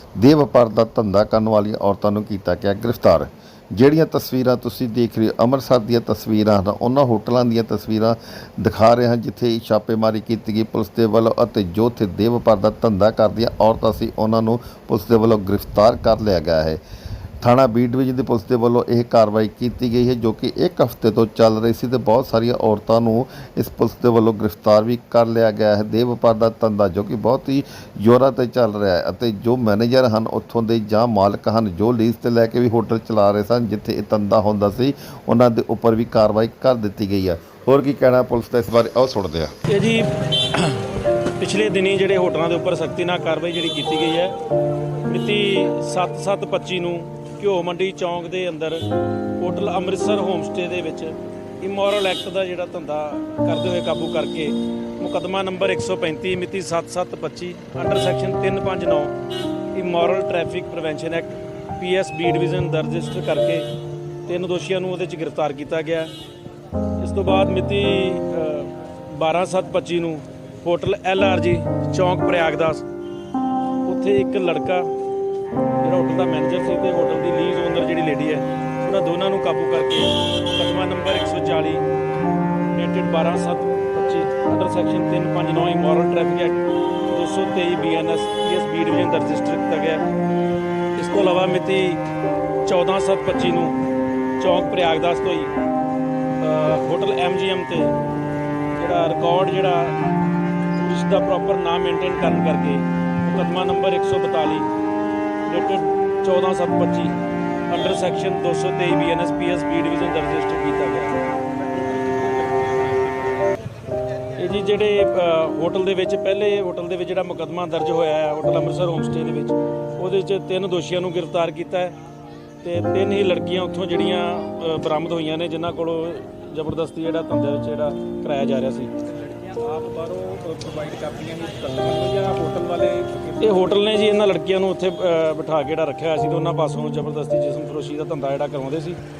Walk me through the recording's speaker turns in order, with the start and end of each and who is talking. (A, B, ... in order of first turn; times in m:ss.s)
0:00.2-0:16.8 A
0:17.4-0:39.5 A
0:39.7-0:40.8 B
0:41.4-0:44.4 B
0:45.0-0:48.8 B
0:49.4-0:59.2 B
0:59.7-1:03.7 B
1:04.3-1:06.1 B
1:07.0-1:12.8 B
1:13.8-1:14.9 B
1:15.8-1:21.9 B
1:22.7-1:30.0 B
1:31.0-1:32.0 B
1:32.6-1:33.8 B
1:34.4-1:35.5 B
1:36.4-1:38.0 B
1:38.8-1:40.0 B
1:40.7-1:44.7 B
1:45.5-1:47.2 B
1:47.7-1:51.2 B
1:51.7-1:53.0 C
1:54.4-2:02.0 B
2:02.6-2:08.9 B
2:09.3-2:13.5 C
2:13.4-2:19.0 B